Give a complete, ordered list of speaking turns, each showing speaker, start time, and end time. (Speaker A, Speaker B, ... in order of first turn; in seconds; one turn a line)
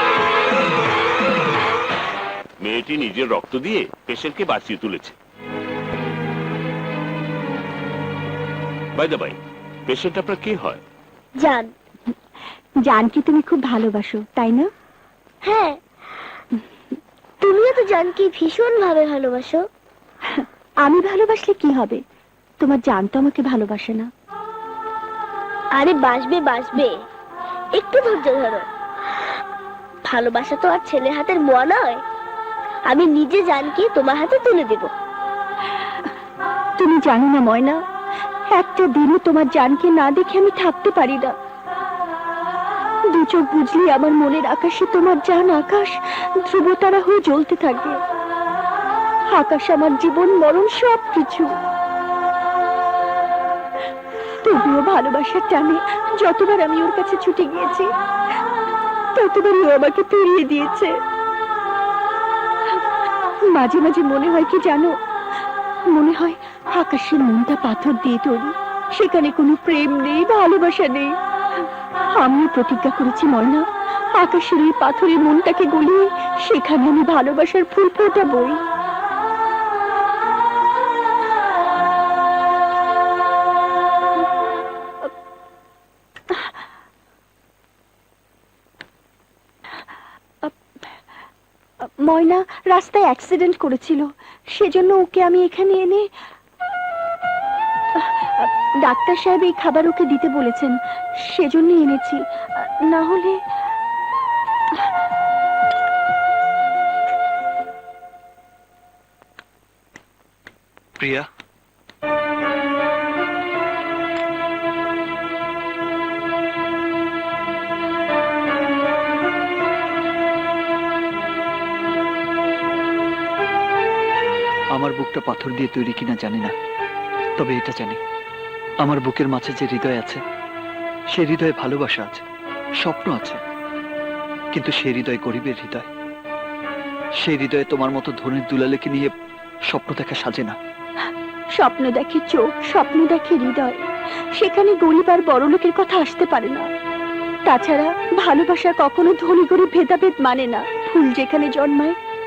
Speaker A: 2.6-5.2
Speaker A: 9.0-9.4
Speaker A: 9.9-10.8
Speaker B: 11.4-11.7
Speaker C: 12.8-14.7
Speaker B: 15.4-15.8
Speaker B: 17.4-19.6
Speaker C: 20.3-22.0
Speaker C: 22.6-24.1
Speaker B: 25.8-26.9
Speaker B: 27.8-28.7
Speaker B: 30.1-32.0
Speaker B: 32.9-34.9
Speaker C: 36.8-37.8
Speaker C: 38.5-41.4
Speaker C: 43.1-48.0
Speaker C: 49.3-51.5
Speaker C: 54.4-57.9
Speaker C: 59.1-60.9
Speaker C: 63.5-64.9
Speaker C: 65.9-71.1
Speaker C: 72.2-73.6
Speaker C: 74.2-78.6
Speaker C: 92.0-96.1
Speaker C: 98.0-103.4
Speaker D: 111.0-111.3
Speaker D: 124.8-126.5
Speaker D: 127.4-128.0
Speaker D: 128.8-130.2
Speaker D: 131.1-132.2
Speaker D: 132.8-133.4
Speaker D: 134.5-135.9
Speaker D: 137.2-139.1
Speaker D: 139.7-140.6
Speaker C: 141.6-146.7
Speaker C: 147.5-152.0